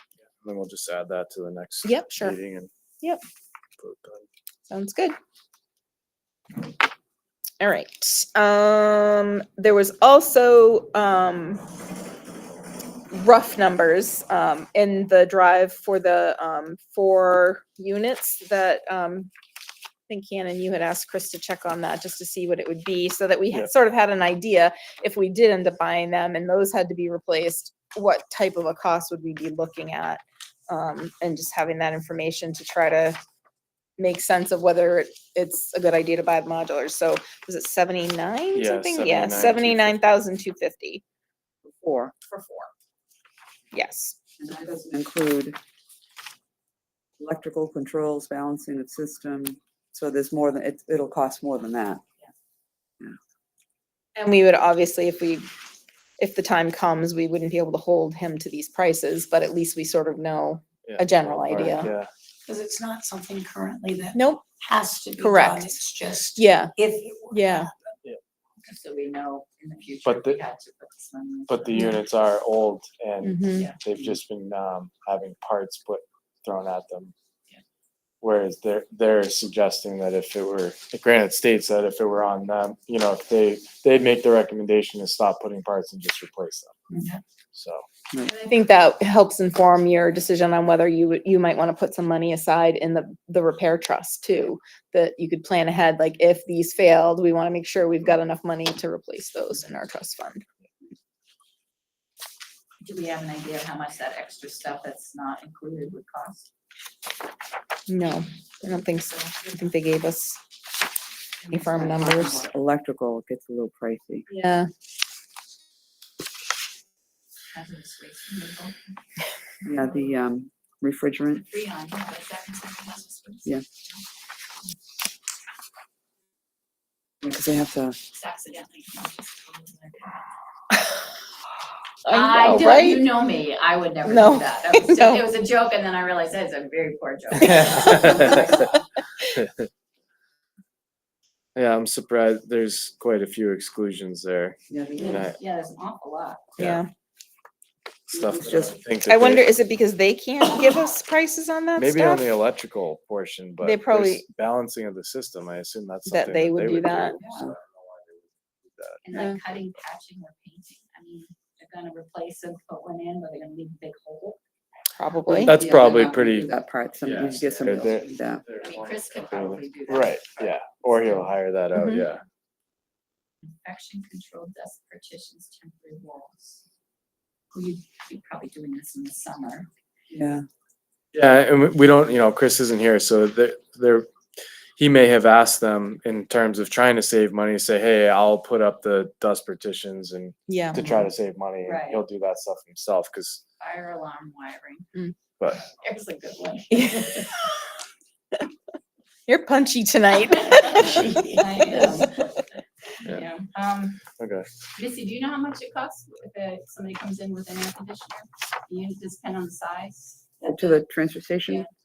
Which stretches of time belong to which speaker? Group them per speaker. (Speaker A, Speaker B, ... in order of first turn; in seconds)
Speaker A: 0.3-2.7, 3.8-4.2, 38.5-40.0, 60.8-62.1, 70.0-70.4, 71.5-77.1, 78.2-86.8, 87.5-87.8, 137.4-138.5, 141.6-145.3, 146.6-146.8, 148.1-149.6, 151.8-159.0, 165.4-172.2, 181.1-184.1, 184.8-193.4, 204.2-204.5
Speaker B: 1.8-2.4, 4.7-5.2, 7.6-11.6, 13.1-19.3, 20.1-33.2, 34.0-41.0, 43.7-44.1, 54.1-55.5, 56.2-61.9, 64.1-64.5, 65.2-65.8, 66.3-66.7, 67.3-67.7, 73.2-73.7, 88.3-100.4, 107.9-110.4, 111.5-112.5, 114.3-114.7, 132.0-133.2, 134.1-135.2, 137.4-138.1, 146.6-146.9, 149.1-152.2, 153.6-154.2, 156.1-157.2, 164.9-165.6, 171.7-172.1, 190.5-191.1, 196.7-197.6, 199.3-202.1
Speaker C: 41.6-42.1, 44.4-45.6, 47.2-52.0, 111.6-114.3, 119.6-121.5, 127.2-128.0, 144.7-145.2, 148.2-148.8, 165.3-168.4, 180.1-180.4, 210.4-211.7
Speaker D: 42.3-42.6, 68.6-72.0, 102.8-106.5, 117.5-119.0, 121.4-123.6, 128.1-130.2, 132.1-138.9, 144.9-146.6, 159.0-164.4, 168.6-171.2, 173.6-176.6, 177.5-179.7, 191.6-192.0, 193.6-194.9, 195.5-197.5, 201.0-202.4, 203.0-204.0, 204.8-210.8, 211.4-211.7
Speaker E: 62.5-67.7